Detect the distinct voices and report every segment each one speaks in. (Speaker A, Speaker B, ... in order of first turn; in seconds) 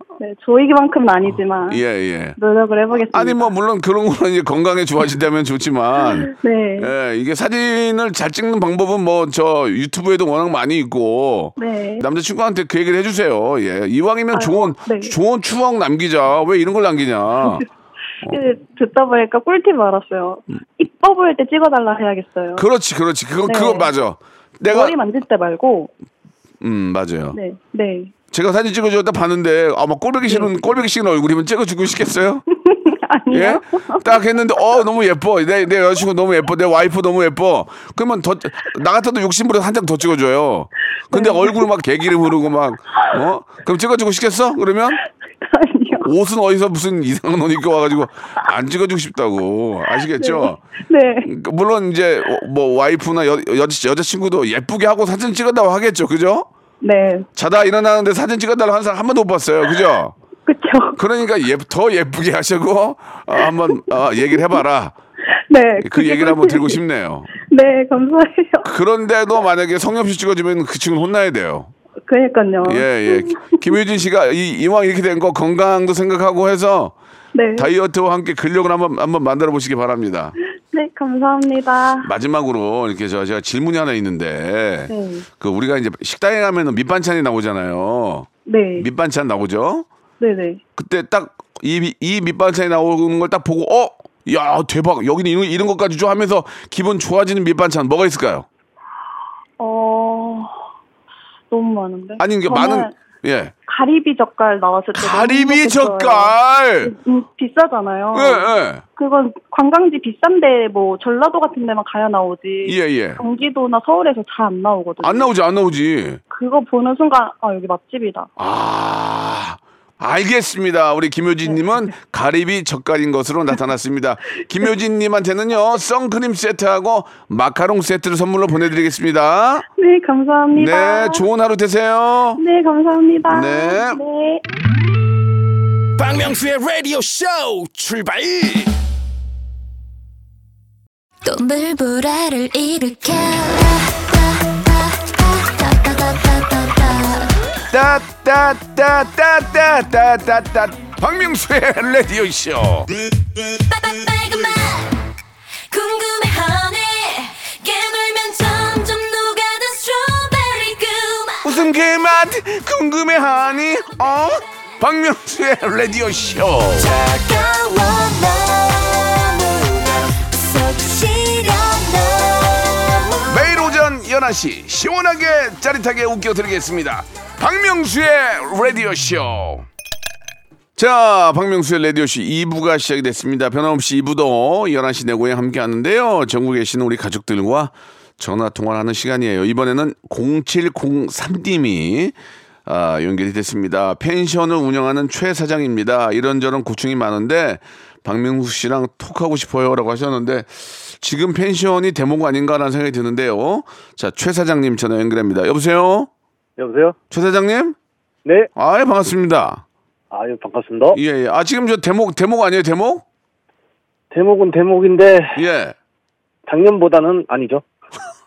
Speaker A: 0.2-1.8, 2.4-3.5, 6.0-6.9, 11.6-12.1, 14.3-15.1, 18.2-22.6, 23.4-23.9, 24.6-25.9, 27.3-28.1, 30.3-30.5, 32.6-34.1, 41.1-41.6, 45.4-46.1, 50.1-51.3, 56.8-57.3, 60.5-61.0, 63.4-64.6, 65.3-66.8, 67.4-68.7, 72.1-73.8, 77.3-77.7, 80.4-82.1, 84.9-85.3, 88.5-88.9, 90.2-90.6, 99.6-100.6, 101.5-102.9, 103.7-115.3, 116.3-118.3, 129.8-131.2, 132.4-134.4
Speaker B: 1.2-2.4, 2.9-17.6, 22.6-25.0, 26.6-27.4, 28.3-32.4, 33.3-45.0, 46.0-50.6, 51.2-56.5, 57.4-60.1, 61.0-64.9, 65.8-67.3, 68.6-71.7, 72.6-76.9, 77.6-80.3, 82.0-89.9, 90.8-98.5, 102.2-103.5, 104.9-106.9, 108.1-108.8, 112.6-113.2, 115.0-116.2, 118.4-129.7, 130.5-132.4, 133.3-134.0, 147.7-152.9, 161.4-166.9, 173.3-179.7, 180.8-192.1, 192.7-206.1, 207.1-207.8, 208.6-209.6, 210.9-213.0, 215.3-215.8
Speaker C: 136.0-138.7
Speaker D: 141.2-147.3, 153.5-155.0, 155.7-161.7, 166.8-173.8
Speaker E: 206.6-206.9, 210.1-211.0, 214.1-215.4, 216.5-217.6